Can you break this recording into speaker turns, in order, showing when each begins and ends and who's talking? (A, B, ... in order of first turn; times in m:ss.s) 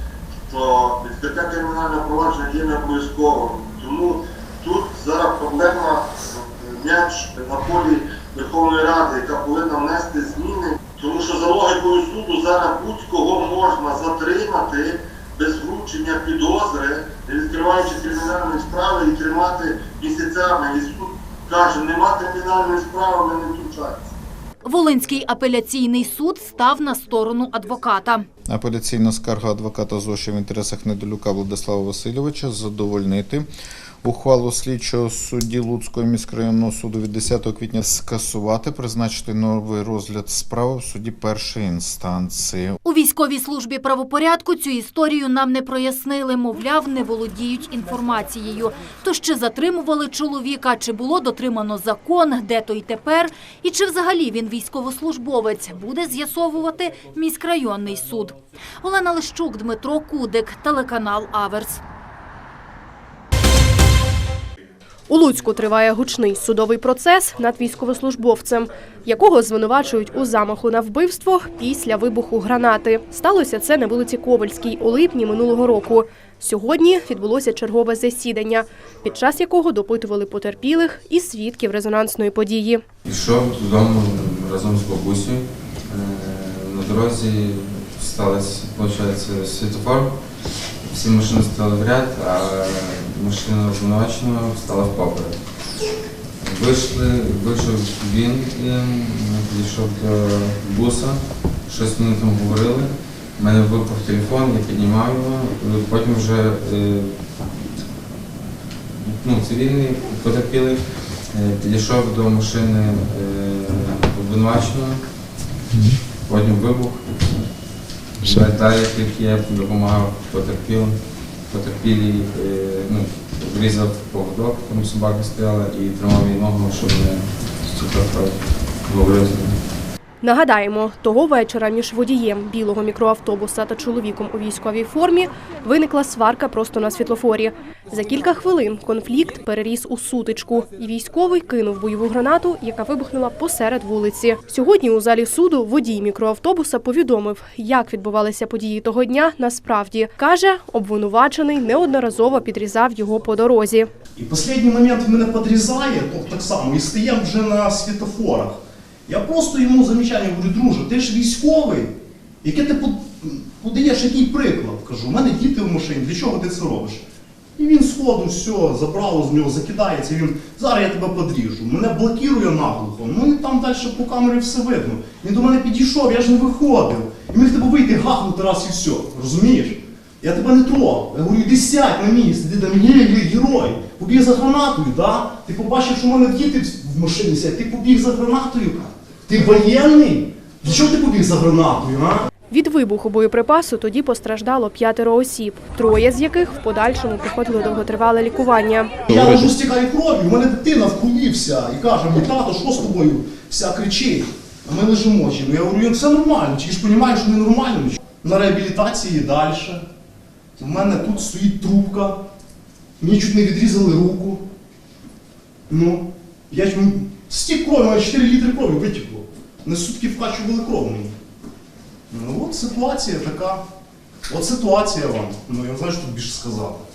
0:00.5-0:24.1 A
0:24.6-0:28.3 B
0:28.5-0:33.5 C
0:34.0-0:42.8 C
0:42.8-1:01.8 B
1:05.1-1:22.8 D
1:23.0-1:35.5 E
1:36.4-1:47.4 E
1:49.0-1:55.0 E
1:56.2-1:57.4 E
1:58.2-2:09.6 E
2:10.2-2:33.9 D
2:34.2-2:47.0 F
2:47.6-3:12.2 F
3:12.5-3:19.0 D
3:19.1-3:29.9 F
3:30.6-3:32.2 F
3:33.0-3:34.4 F
3:35.7-3:41.2 F
3:42.1-3:43.6 F
3:44.3-3:46.8 F